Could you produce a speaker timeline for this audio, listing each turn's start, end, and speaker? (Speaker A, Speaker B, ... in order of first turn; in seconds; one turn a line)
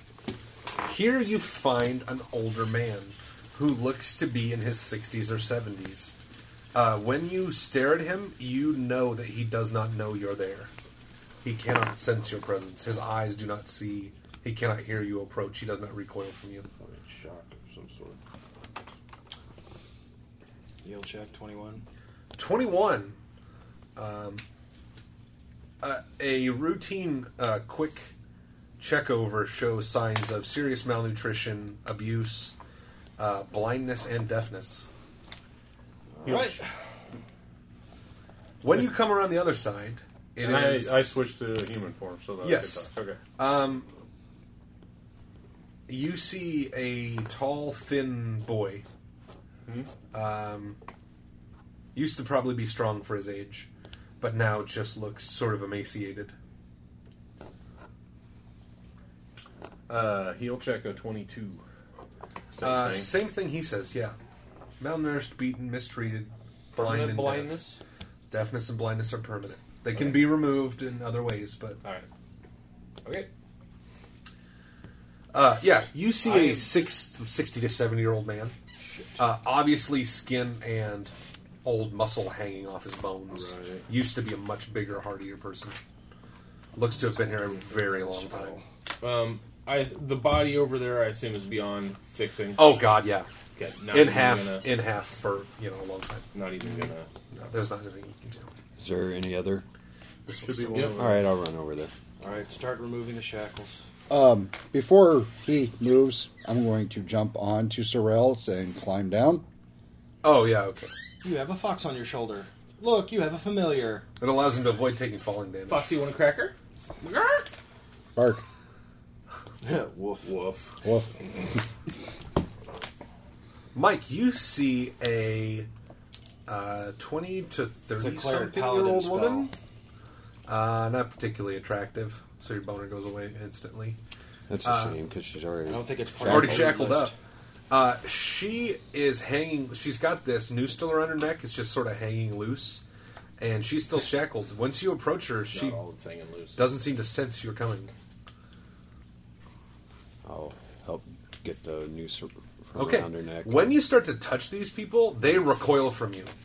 Speaker A: 0.8-6.1
Speaker A: 6.7-10.7
Speaker A: 11.4-16.6
Speaker B: 16.8-18.2
Speaker C: 20.8-21.8
Speaker A: 22.4-23.2
Speaker A: 23.9-24.4
Speaker A: 25.8-28.1
Speaker A: 28.8-32.5
Speaker A: 33.2-34.9
Speaker C: 36.1-36.7
Speaker D: 36.2-36.6
Speaker A: 38.6-41.2
Speaker D: 40.4-43.2
Speaker A: 42.4-43.9
Speaker A: 45.9-48.8
Speaker A: 50.1-50.8
Speaker A: 51.9-53.7
Speaker A: 54.2-56.3
Speaker D: 59.9-61.6
Speaker D: 62.5-63.1
Speaker A: 62.6-64.2
Speaker A: 64.8-67.6
Speaker D: 66.7-67.8
Speaker A: 68.3-71.8
Speaker D: 73.0-73.3
Speaker A: 75.3-78.5
Speaker A: 79.2-81.1
Speaker A: 81.6-85.8
Speaker B: 83.3-83.9
Speaker A: 86.7-88.6
Speaker C: 87.6-88.6
Speaker B: 89.0-92.7
Speaker A: 92.5-93.3
Speaker B: 93.5-94.7
Speaker A: 93.9-96.2
Speaker B: 96.3-97.1
Speaker A: 97.3-98.5
Speaker E: 98.8-99.6
Speaker A: 100.2-101.2
Speaker D: 100.4-101.2
Speaker B: 100.7-101.0
Speaker E: 101.0-101.9
Speaker C: 102.2-103.8
Speaker F: 104.1-109.4
Speaker A: 110.2-110.9
Speaker C: 111.2-114.0
Speaker A: 114.2-116.0
Speaker B: 115.7-117.5
Speaker F: 118.1-118.4
Speaker C: 119.6-120.3
Speaker B: 120.2-120.8
Speaker A: 123.7-125.7
Speaker A: 126.5-129.5
Speaker C: 128.0-129.5
Speaker A: 130.4-134.0
Speaker E: 134.5-136.9
Speaker A: 134.6-135.0
Speaker C: 135.7-137.1
Speaker A: 136.2-137.1
Speaker A: 137.7-142.8
Speaker A: 143.4-145.8
Speaker B: 145.5-146.6
Speaker A: 146.5-147.9
Speaker E: 150.2-153.8
Speaker A: 152.7-156.3